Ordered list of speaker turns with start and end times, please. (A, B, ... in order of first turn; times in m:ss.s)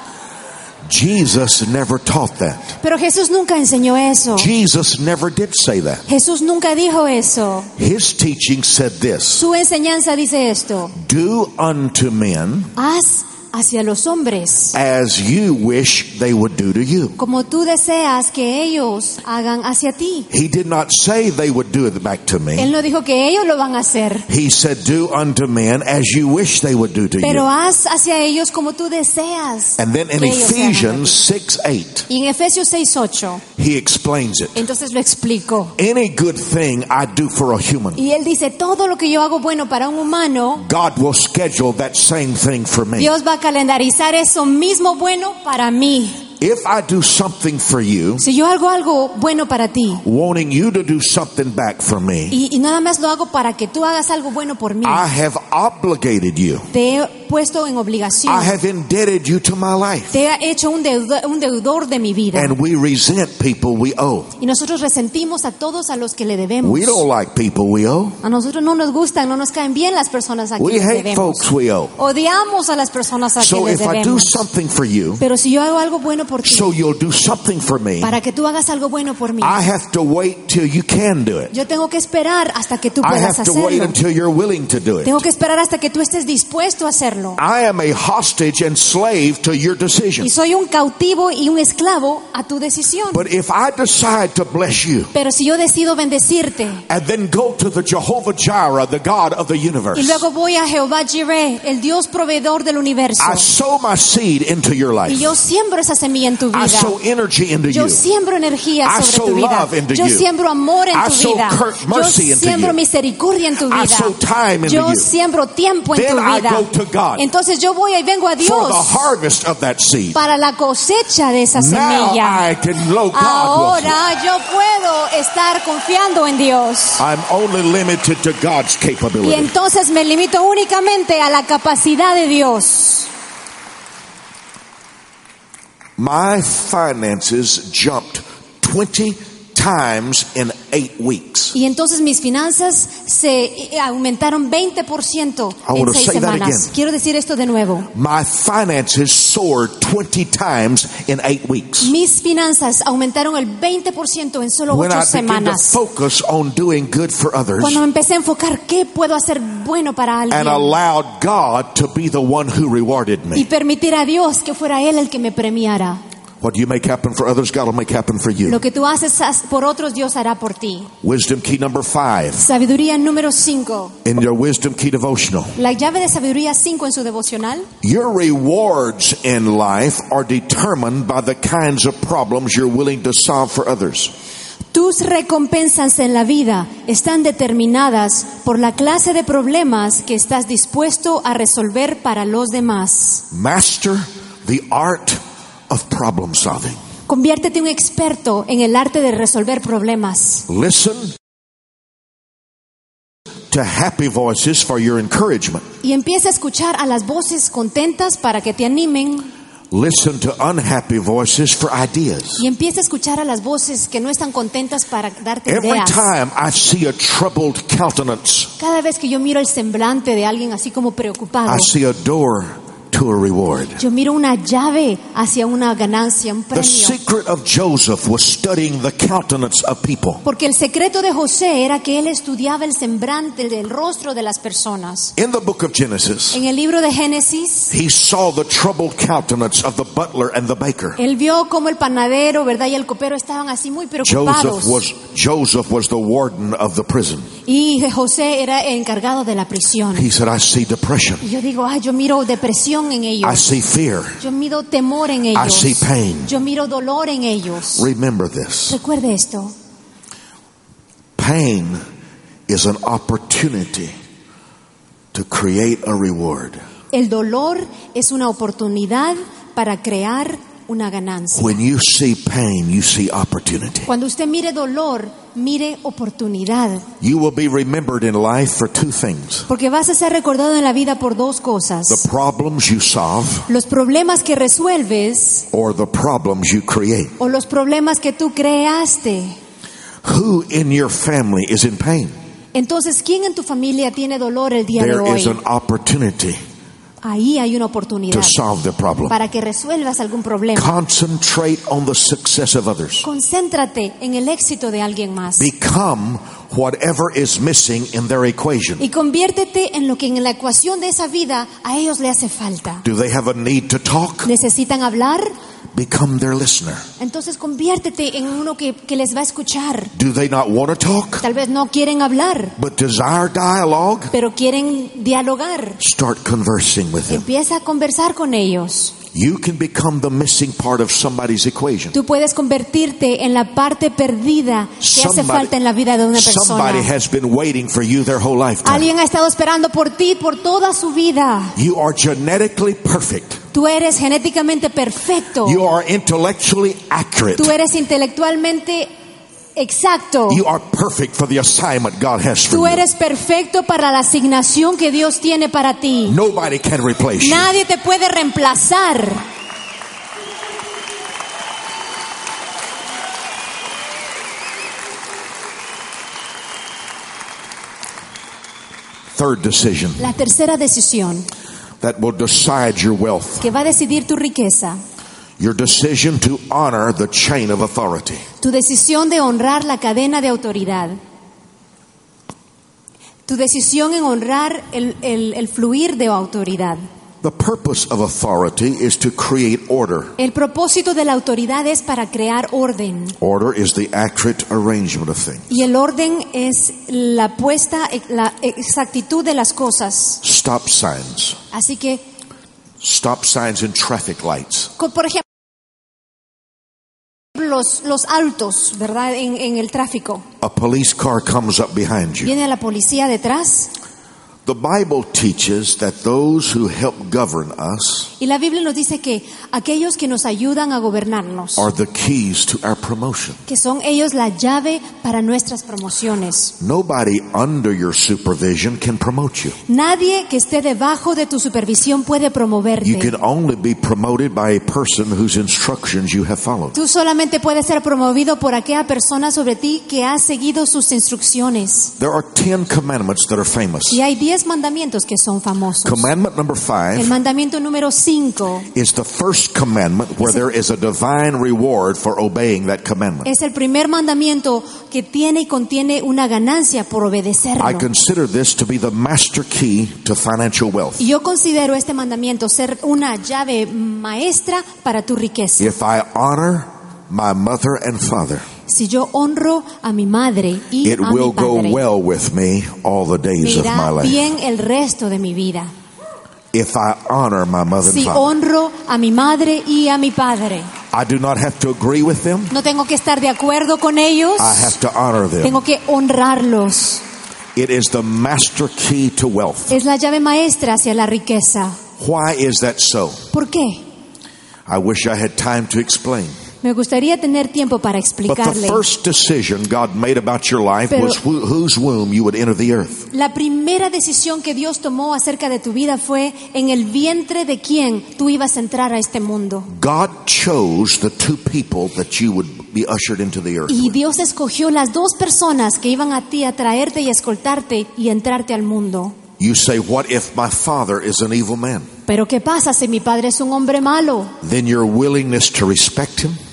0:00.8-0:02.8 A
0:02.8-0:04.5 B
0:04.4-0:06.1 A
0:06.1-0:07.7 B
0:07.8-0:09.5 A
0:09.4-0:11.0 B
0:10.9-0:12.7 A
0:12.8-0:14.8 B
0:14.7-0:17.2 A
0:17.2-0:20.3 B
0:20.3-0:22.7 A
0:22.6-0:24.3 B
0:24.3-0:27.5 A
0:27.2-0:31.2 B
0:29.8-0:32.1 A
0:32.1-0:33.4 B
0:33.6-0:34.6 A
0:34.5-0:35.8 B
0:35.8-0:38.0 A
0:38.0-0:40.6 B
0:40.6-0:43.1 A
0:43.0-0:46.2 B
0:46.4-0:48.2 A
0:48.2-0:50.0 B
0:50.0-0:52.4 A
0:52.3-0:55.0 B
0:54.8-0:56.7 A
0:56.7-0:58.5 B
0:58.2-1:00.2 A
1:00.1-1:02.6 B
1:02.3-1:04.3 A
1:04.4-1:07.0 B
1:06.6-1:08.2 A
1:08.2-1:14.4 B
1:10.6-1:12.0 A
1:13.4-1:15.2 A
1:15.2-1:16.8 B
1:16.4-1:18.2 A
1:18.0-1:19.6 B
1:19.4-1:21.5 A
1:21.5-1:24.0 B
1:23.0-1:25.2 A
1:25.0-1:27.4 B
1:27.4-1:30.3 A
1:30.2-1:33.2 B
1:33.1-1:35.1 A
1:35.1-1:36.8 B
1:36.9-1:40.2 A
1:39.9-1:43.5 B
1:43.2-1:45.4 A
1:45.1-1:46.9 B
1:46.5-1:48.1 A
1:47.7-1:59.1 B
1:48.8-1:50.3 A
1:50.9-1:52.8 A
1:53.6-1:55.1 A
1:55.9-1:57.3 A
1:58.4-2:00.2 A
2:00.1-2:02.5 B
2:01.5-2:04.0 A
2:03.1-2:07.0 B
2:07.0-2:09.5 A
2:09.2-2:13.1 B
2:16.0-2:21.6 A
2:21.5-2:27.9 B
2:25.6-2:26.8 A
2:27.9-2:31.9 A
2:31.8-2:35.8 B
2:34.7-2:37.8 A
2:37.6-2:40.8 B
2:40.3-2:43.5 A
2:43.4-2:46.0 B
2:46.4-2:48.6 A
2:48.4-2:50.9 B
2:51.0-2:52.5 A
2:52.4-2:54.0 B
2:54.0-2:55.6 A
2:55.6-2:57.7 B
2:57.8-3:04.1 A
3:04.7-3:13.2 B
3:13.3-3:16.8 A
3:17.1-3:20.5 B
3:20.5-3:21.2 A
3:23.5-3:25.7 A
3:25.8-3:29.3 B
3:29.7-3:32.4 A
3:32.4-3:36.1 B
3:35.5-3:38.5 A
3:38.6-3:41.7 B
3:41.5-3:43.8 A
3:43.8-3:47.0 B
3:46.5-3:50.2 A
3:50.2-3:55.1 B
3:55.2-3:56.4 A
3:56.3-3:57.7 B
3:57.7-4:01.0 A
4:01.0-4:04.8 B
4:04.0-4:07.3 A
4:07.5-4:10.1 B
4:09.9-4:11.2 A
4:11.2-4:13.5 B
4:13.2-4:14.2 A
4:14.2-4:17.9 B
4:15.3-4:16.3 A
4:17.7-4:18.8 A
4:18.7-4:19.5 B
4:21.2-4:21.8 A
4:22.5-4:23.9 A
4:25.1-4:26.6 A
4:26.9-4:31.5 B
4:31.4-4:33.9 A
4:33.9-4:36.9 B
4:37.0-4:39.5 A
4:39.5-4:42.1 B
4:41.9-4:43.5 A
4:43.5-4:45.5 B
4:45.5-4:47.2 A
4:47.2-4:49.4 B
4:50.0-4:52.2 A
4:52.5-4:55.4 B
4:54.8-4:56.4 A
4:57.0-4:58.4 B
4:58.1-4:59.2 A
4:59.1-5:00.7 B
5:00.5-5:03.1 A
5:03.0-5:05.4 B
5:05.4-5:08.8 A
5:08.8-5:12.8 B
5:12.8-5:14.3 A
5:14.2-5:15.3 B
5:15.7-5:16.8 A
5:17.0-5:19.9 B
5:19.9-5:21.2 A
5:21.2-5:22.5 B
5:22.6-5:24.1 A
5:24.1-5:25.8 B
5:25.8-5:27.2 A
5:27.1-5:29.0 B
5:29.1-5:31.9 A
5:31.9-5:36.9 B
5:34.8-5:35.5 A
5:36.1-5:38.9 A
5:38.6-5:41.6 B
5:41.6-5:43.4 A
5:43.5-5:45.6 B
5:45.4-5:47.6 A
5:47.4-5:48.9 B
5:49.6-5:50.4 B
5:50.3-5:52.8 A
5:52.5-5:56.2 B
5:56.1-5:57.5 A
5:57.2-5:59.2 B
6:09.1-6:10.1 A
6:10.0-6:11.3 B
6:11.8-6:13.5 A
6:13.4-6:14.8 B
6:15.4-6:18.2 A
6:18.4-6:21.0 B
6:23.3-6:26.8 B
6:27.2-6:30.2 A
6:30.2-6:33.2 B
6:33.2-6:35.6 A
6:35.5-6:40.2 B
6:40.2-6:41.4 A
6:41.5-6:42.0 B
6:42.8-6:44.7 A
6:44.8-6:45.2 B
6:47.3-6:50.2 B
6:50.4-6:52.3 A
6:52.2-6:53.7 B
6:54.4-6:58.1 A
6:58.2-7:01.7 B
7:01.6-7:03.4 A
7:03.5-7:06.5 B
7:06.6-7:09.6 A
7:09.7-7:13.1 B
7:12.8-7:16.8 A
7:16.7-7:21.9 B
7:22.0-7:24.0 A
7:23.9-7:26.1 B
7:25.8-7:27.2 A
7:26.9-7:28.7 B
7:28.7-7:33.3 A
7:33.2-7:37.8 B
7:37.6-7:41.1 A
7:41.0-7:45.7 B
7:45.6-7:48.5 A
7:48.7-7:51.8 B
7:50.8-7:54.3 A
7:53.4-7:55.7 B
7:56.5-7:58.3 A
7:57.8-8:00.7 B
8:00.9-8:02.5 A
8:02.5-8:04.8 B
8:04.4-8:05.6 A
8:05.4-8:07.0 B
8:07.5-8:09.8 A
8:09.7-8:11.8 B
8:12.0-8:13.3 A
8:13.3-8:13.8 B
8:14.6-8:16.4 A
8:16.6-8:18.8 B
8:18.3-8:23.1 A
8:20.9-8:21.2 B
8:23.1-8:29.7 B
8:29.7-8:33.9 A
8:33.7-8:39.2 B
8:39.4-8:41.9 A
8:42.1-8:44.4 B
8:44.4-8:46.4 A